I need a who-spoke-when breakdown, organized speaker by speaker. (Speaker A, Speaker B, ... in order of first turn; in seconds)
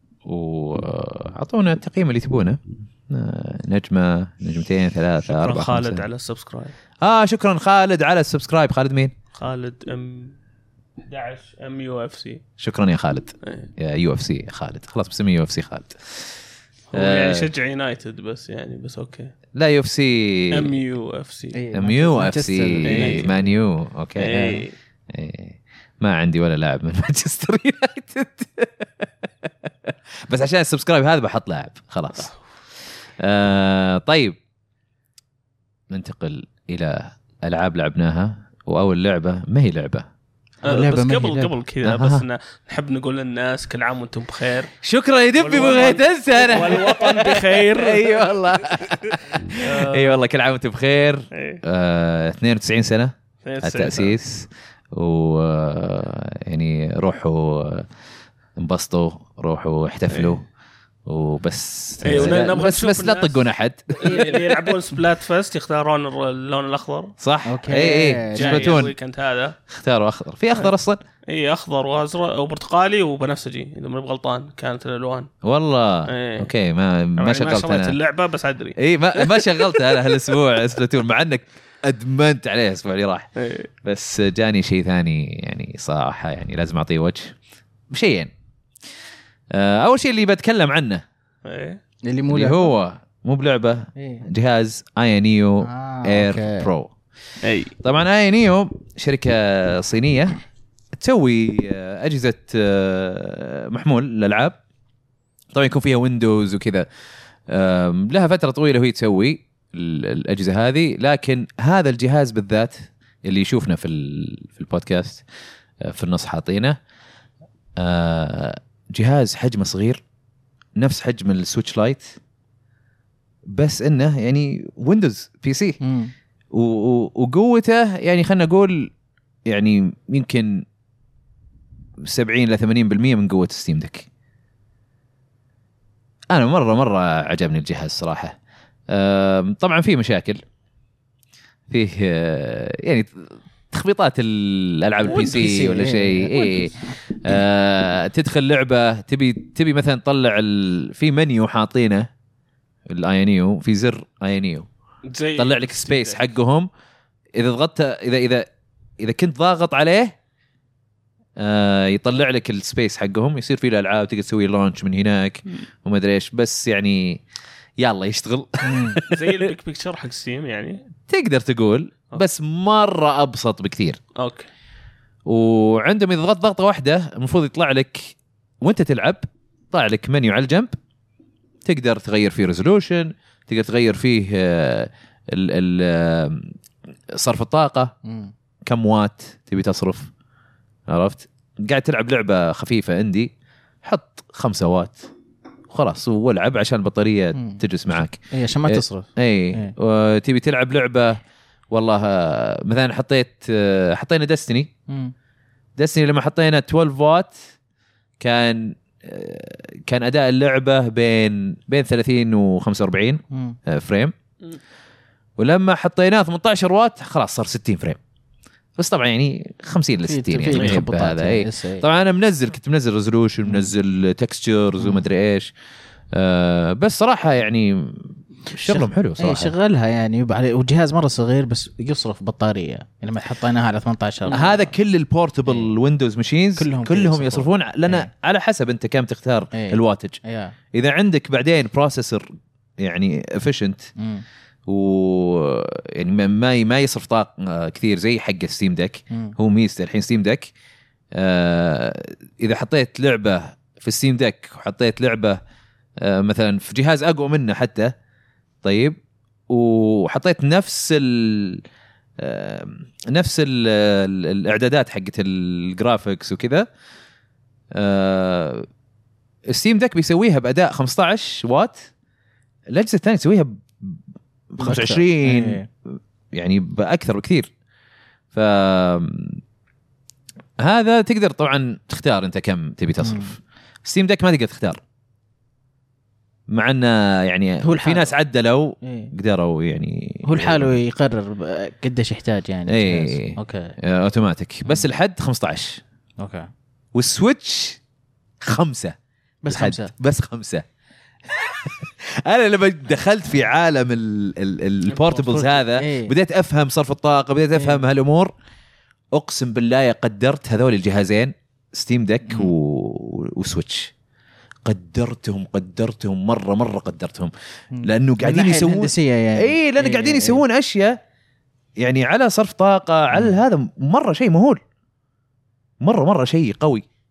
Speaker A: 0.2-6.1, 7.0-9.1, 12.6-16.3, 16.9-17.5, 19.5-20.7, 21.7-24.4, 25.1-32.3, 33.2-34.4, 35.9-40.1, 41.8-42.2, 44.8-57.9, 58.6-60.4, 61.1-64.6, 67.2-68.9, 69.7-71.0, 75.4-78.0, 78.8-83.3, 83.8-87.3, 87.9-88.3, 89.5-91.0, 92.3-96.9, 97.8-100.4, 100.9-104.6, 105.5-106.9, 107.5-115.2, 115.8-116.8, 117.8-120.0, 120.8-122.2, 123.5-125.8, 126.5-128.9, 129.5-130.7, 132.0-134.1, 136.3-138.4, 138.9-140.4, 141.7-143.1, 143.7-152.1, 152.9-154.7, 155.4-156.7, 157.4-160.2, 161.4-167.2, 167.8-169.5, 171.1-174.0, 175.3-180.8, 181.7-186.5, 187.1-187.9, 188.7-190.1, 190.9-193.3, 193.8-195.1, 195.7-201.2, 201.7-204.7, 205.8-207.4, 208.2-214.1, 215.4-218.0, 218.8-225.5, 226.1-229.5, 234.3-240.2, 240.7-242.3, 242.8-243.9, 244.7-250.5, 251.2-255.4, 256.0-258.0, 258.6-259.0, 259.5-261.6, 262.2-266.7, 267.7-268.7, 269.5-271.9, 272.7-274.0, 274.5-277.5, 278.3-279.4, 280.6-284.8, 286.5-290.8, 292.7-295.8, 296.9-297.8, 298.4-299.0, 299.5-300.6, 301.3-308.3, 309.1-313.9, 314.6-321.0, 321.8-324.6, 325.8-326.9
Speaker B: 5.3-6.7, 9.3-10.4, 11.0-12.4, 13.4-13.7, 16.9-19.3, 20.5-21.6, 22.8-23.4, 24.2-24.7, 40.7-44.7, 45.4-50.2, 51.3-51.6, 53.4-54.2, 60.1-60.4, 62.0-63.4, 64.0-67.2, 68.3-69.6, 71.3-75.3, 76.1-76.5, 77.2-80.1, 83.4-83.7, 91.5-91.8, 97.4-97.8, 145.1-145.6, 155.1-156.2, 169.1-170.8, 174.2-174.5, 220.5-220.8, 304.9-305.5
Speaker C: 21.5-23.3, 24.3-24.6, 40.6-41.5, 64.1-64.4, 67.5-68.9, 92.0-92.7, 94.0-94.2, 95.6-96.7, 125.8-126.1, 145.0-146.7, 168.6-169.0, 188.0-188.3, 197.3-197.6, 198.3-199.7, 204.9-205.1, 213.3-213.6, 220.1-221.9, 224.8-225.0, 228.5-234.7, 235.5-235.7, 236.6-238.1, 239.5-240.6, 244.0-244.2, 274.6-275.7, 283.0-283.3, 287.6-288.1, 288.8-289.1, 290.2-293.7, 296.2-296.5, 299.4-299.9, 305.4-306.1, 307.6-307.8, 312.3-312.5, 317.7-320.4, 323.1-323.4